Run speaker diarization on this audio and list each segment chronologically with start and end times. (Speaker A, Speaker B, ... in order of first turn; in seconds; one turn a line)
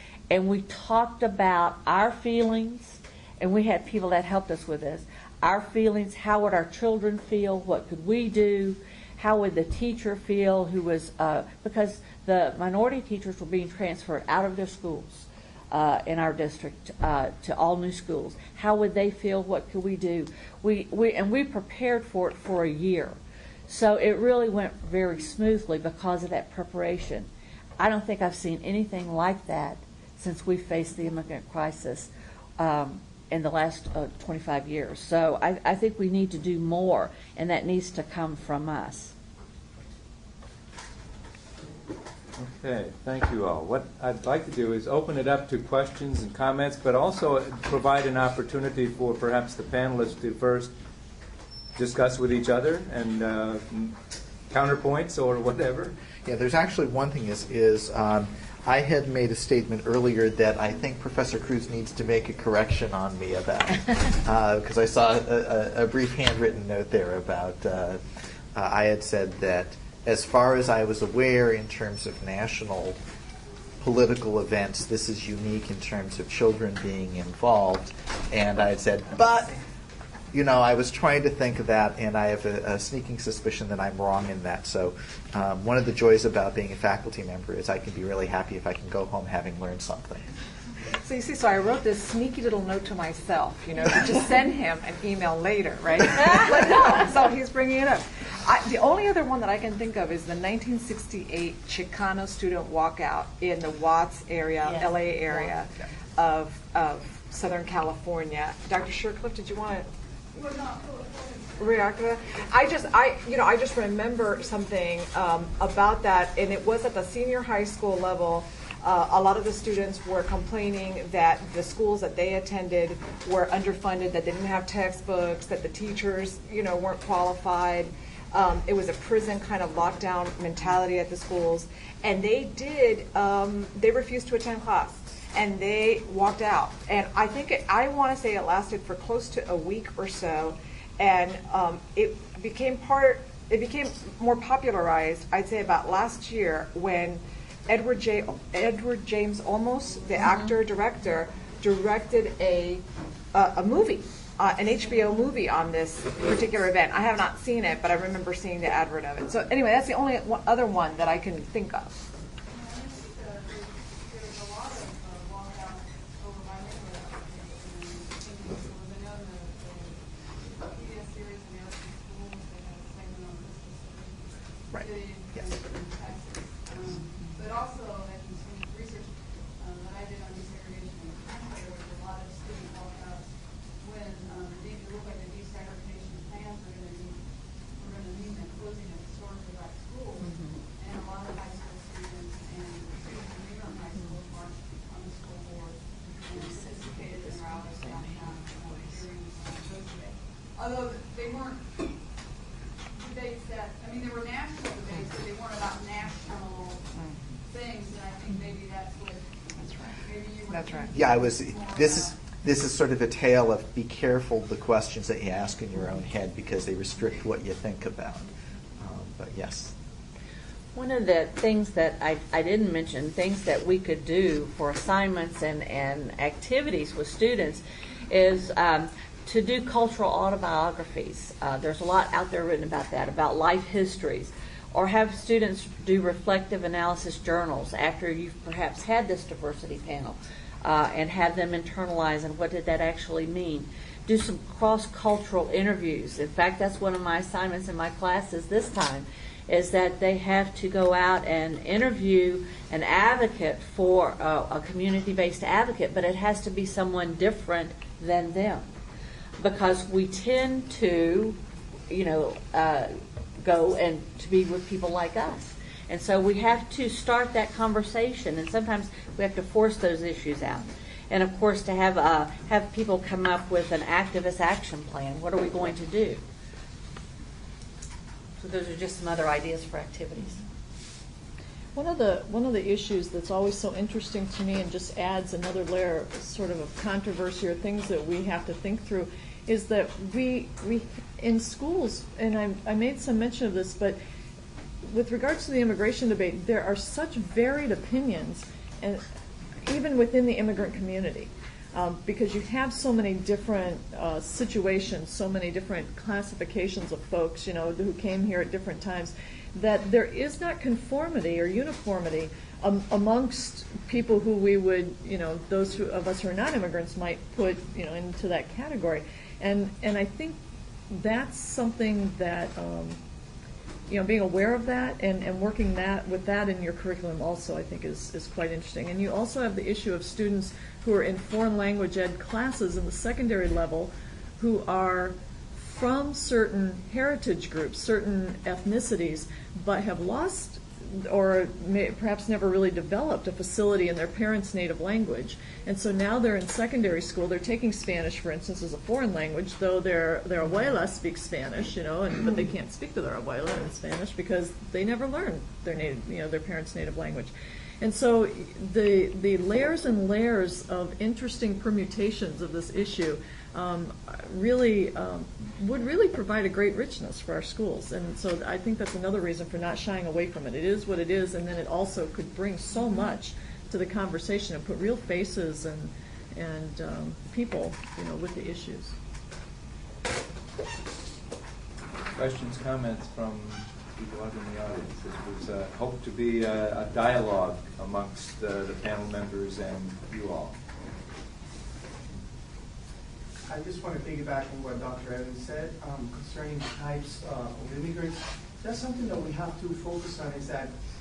Speaker A: 0.3-23.2
Speaker A: 23.7-27.3
Speaker A: 27.8-39.1
Speaker B: 42.4-50.7
Speaker B: 51.8-54.0
Speaker B: 54.5-55.9
Speaker C: 56.3-68.0
Speaker C: 68.5-73.0
Speaker C: 73.8-79.6
Speaker C: 80.3-90.2
Speaker D: 91.0-109.9
Speaker E: 110.3-111.9
Speaker D: 111.6-152.8
Speaker D: 153.3-161.9
Speaker E: 162.5-201.8
Speaker C: 174.7-175.5
Speaker E: 202.9-206.8
Speaker E: 207.5-209.3
Speaker D: 209.6-210.0
Speaker E: 209.9-212.2
Speaker D: 210.5-210.9
Speaker C: 210.9-219.7
Speaker A: 220.8-258.7
Speaker A: 259.4-261.4
Speaker A: 261.9-276.2
Speaker A: 278.4-280.4
Speaker F: 281.8-294.0
Speaker F: 294.8-299.0
Speaker F: 299.6-320.4
Speaker F: 320.9-323.0
Speaker F: 323.9-378.9
Speaker B: 382.1-390.6
Speaker G: 393.5-400.7